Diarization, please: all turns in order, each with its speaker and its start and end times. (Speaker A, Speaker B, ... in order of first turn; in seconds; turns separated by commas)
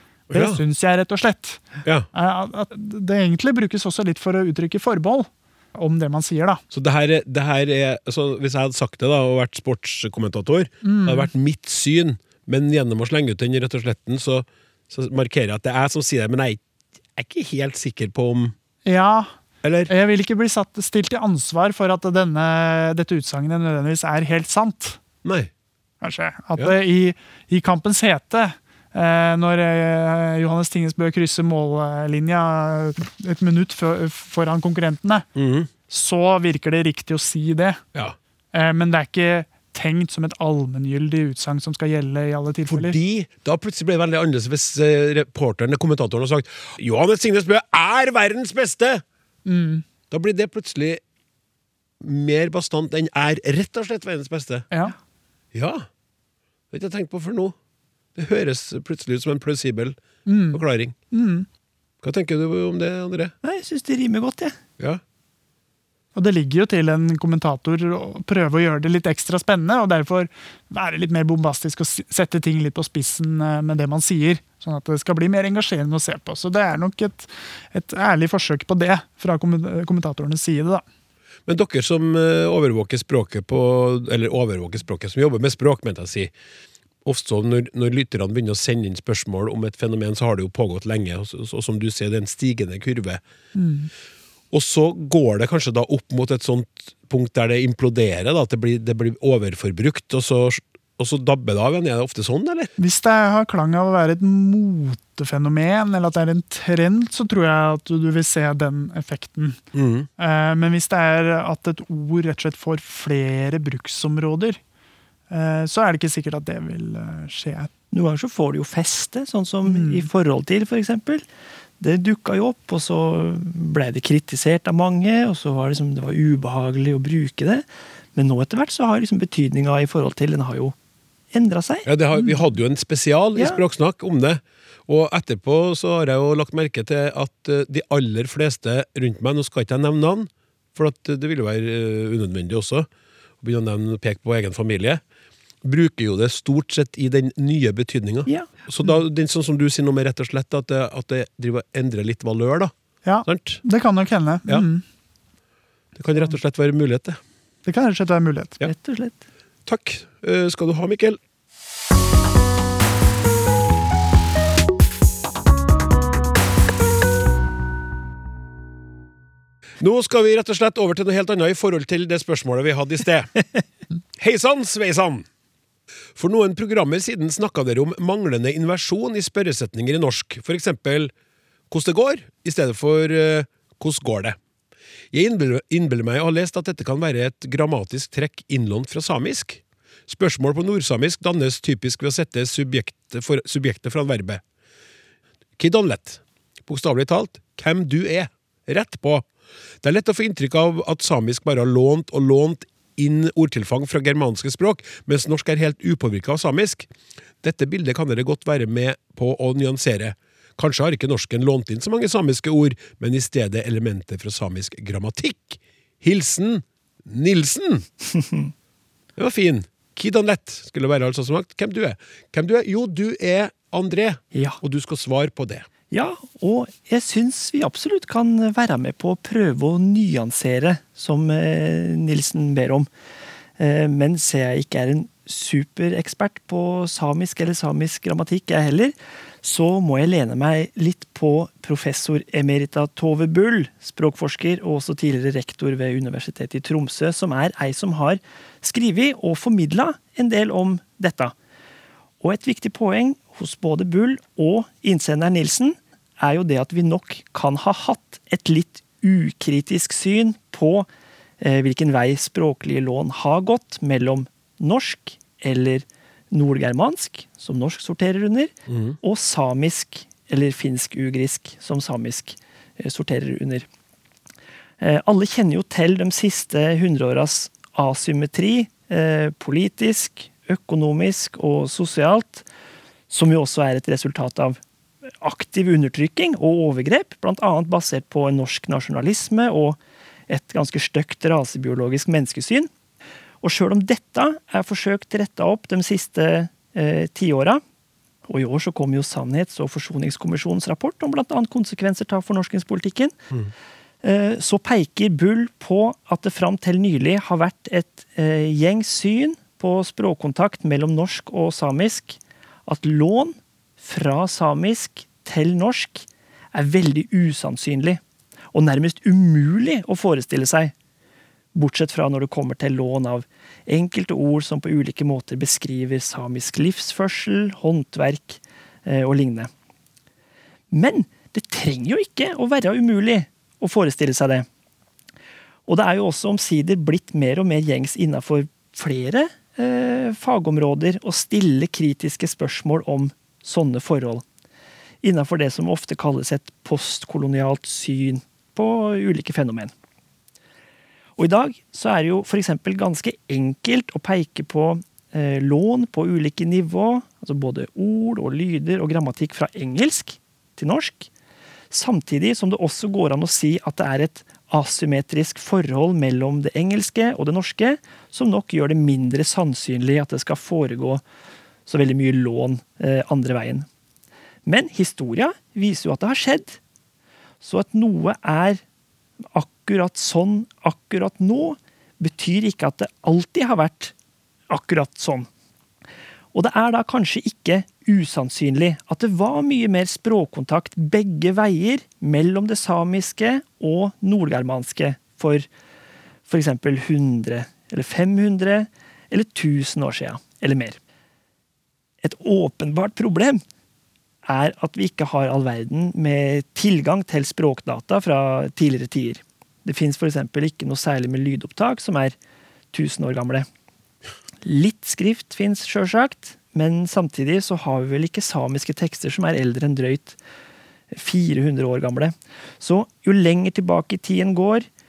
Speaker A: 0.3-0.6, Speaker B: 0.3-6.6, Speaker A: 6.7-16.6, Speaker B: 10.8-11.3, Speaker A: 17.1-18.5, Speaker B: 18.8-19.3, Speaker A: 19.6-19.9, Speaker B: 19.9-25.0, Speaker A: 25.2-25.5, Speaker B: 26.0-35.3, Speaker A: 35.4-35.7, Speaker B: 35.9-37.8, Speaker B: 38.5-43.0, Speaker A: 42.7-49.0, Speaker B: 49.4-49.8, Speaker A: 50.1-51.0, Speaker A: 52.0-54.7, Speaker A: 55.5-55.9, Speaker A: 56.7-57.5, Speaker A: 58.1-60.0, Speaker B: 60.2-61.5, Speaker A: 60.5-60.9, Speaker A: 62.0-63.3, Speaker C: 63.4-64.5, Speaker B: 66.1-80.8, Speaker A: 81.5-86.3, Speaker A: 87.0-93.2, Speaker B: 93.5-93.9, Speaker A: 94.5-102.7, Speaker B: 102.8-109.6, Speaker A: 109.7-110.1, Speaker B: 110.2-114.6, Speaker B: 115.3-117.7, Speaker C: 117.9-121.2, Speaker B: 119.6-120.1, Speaker C: 121.8-130.7, Speaker C: 131.3-131.9, Speaker A: 131.8-142.9, Speaker A: 143.4-145.0, Speaker A: 145.6-152.7, Speaker B: 153.0-154.8, Speaker A: 153.2-153.6, Speaker A: 155.9-157.2, Speaker B: 157.6-158.6, Speaker C: 158.6-159.2, Speaker A: 159.7-161.2, Speaker A: 169.8-173.3, Speaker A: 174.2-175.2, Speaker A: 176.2-181.1, Speaker A: 181.7-184.4, Speaker A: 185.1-194.4, Speaker A: 195.6-199.2, Speaker A: 199.8-206.9, Speaker A: 207.4-217.8, Speaker C: 218.1-218.5, Speaker A: 219.2-225.7, Speaker C: 224.3-224.6, Speaker C: 225.9-232.9, Speaker C: 233.6-251.3, Speaker C: 252.2-260.9, Speaker C: 261.4-273.7, Speaker A: 268.7-269.0, Speaker C: 274.8-282.4, Speaker C: 283.1-284.6, Speaker C: 285.2-292.7, Speaker C: 293.4-297.6, Speaker C: 298.3-303.1, Speaker C: 304.0-318.0, Speaker C: 318.5-320.7, Speaker C: 321.5-329.5, Speaker C: 330.7-334.4, Speaker C: 335.7-344.2, Speaker C: 345.0-349.7, Speaker C: 351.2-361.1, Speaker C: 361.7-371.0, Speaker C: 371.7-373.7, Speaker C: 374.4-376.6, Speaker C: 377.4-378.6, Speaker C: 379.3-383.9, Speaker C: 384.5-385.3, Speaker C: 386.3-395.5, Speaker C: 396.2-400.8, Speaker C: 402.0-403.4, Speaker C: 404.2-412.1, Speaker C: 412.7-413.4, Speaker C: 414.4-420.2, Speaker C: 420.9-424.7